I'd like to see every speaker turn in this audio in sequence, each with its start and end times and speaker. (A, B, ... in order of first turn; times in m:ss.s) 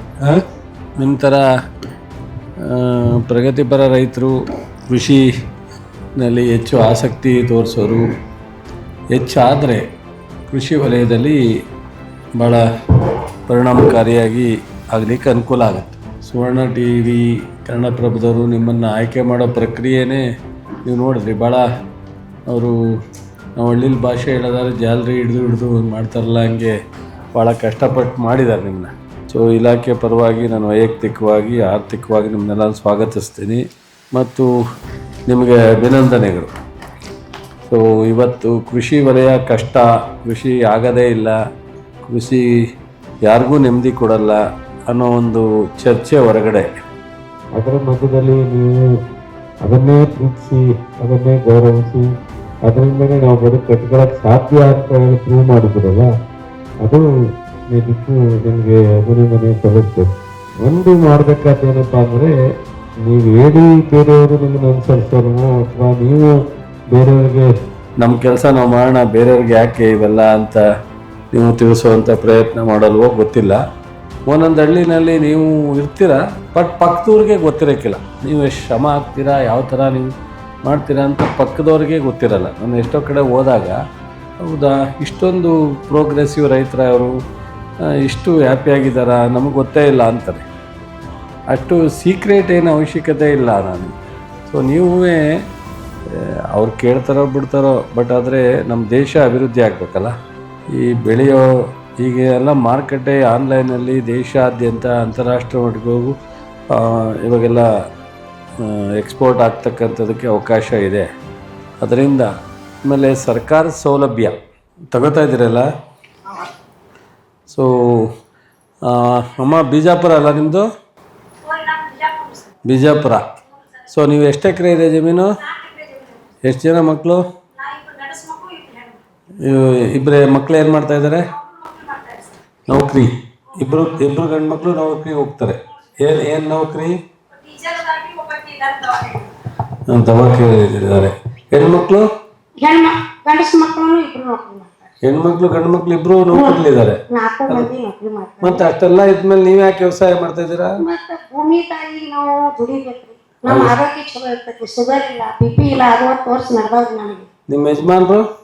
0:01.0-0:01.4 A
0:02.6-0:04.3 A
0:04.9-0:05.2 A
0:06.2-0:08.1 A
0:09.1-0:09.8 A
0:10.5-0:11.4 A
0:12.4-0:12.6 A
0:13.5-0:20.2 A
0:20.9-0:21.6 A
0:22.5-0:22.8 A
0:23.6-0:26.8 A
0:27.3-0:34.5 A
0:35.3-0:36.5 A
0:37.7-0:41.4 A
0:42.1-0:42.5 A
0:43.2-0:46.7 A
0:47.5-0:48.9 B
0:49.6-0:52.1 B
0:52.6-0:56.1 B
0:56.8-0:57.1 B
0:57.7-1:00.1 B
1:00.6-1:02.3 B
1:03.0-1:07.5 B
1:08.0-1:10.6 A
1:11.3-1:13.6 A
1:14.3-1:20.1 A
1:20.6-1:23.8 A
1:24.4-1:27.1 A
1:27.9-1:30.4 A
1:31.5-1:33.9 A
1:34.5-1:35.3 A
1:36.1-1:40.1 A
1:40.7-1:41.4 A
1:42.0-1:46.2 A
1:46.7-1:47.7 A
1:48.6-1:51.1 A
1:51.8-1:52.3 A
1:52.8-1:54.4 A
1:54.9-1:55.7 A
1:57.5-1:58.1 A
1:58.8-2:00.6 A
2:02.0-2:02.3 C
2:02.6-2:03.2 A
2:03.9-2:05.3 A
2:06.4-2:07.2 A
2:07.6-2:09.0 C
2:09.4-2:11.2 A
2:11.8-2:12.2 C
2:12.7-2:17.0 A
2:17.5-2:19.3 C
2:19.9-2:22.1 A
2:22.6-2:24.9 C
2:25.0-2:27.7 A
2:26.3-2:28.6 C
2:28.4-2:30.8 A
2:30.8-2:37.3 C
2:33.5-2:33.7 A
2:37.5-2:38.2 A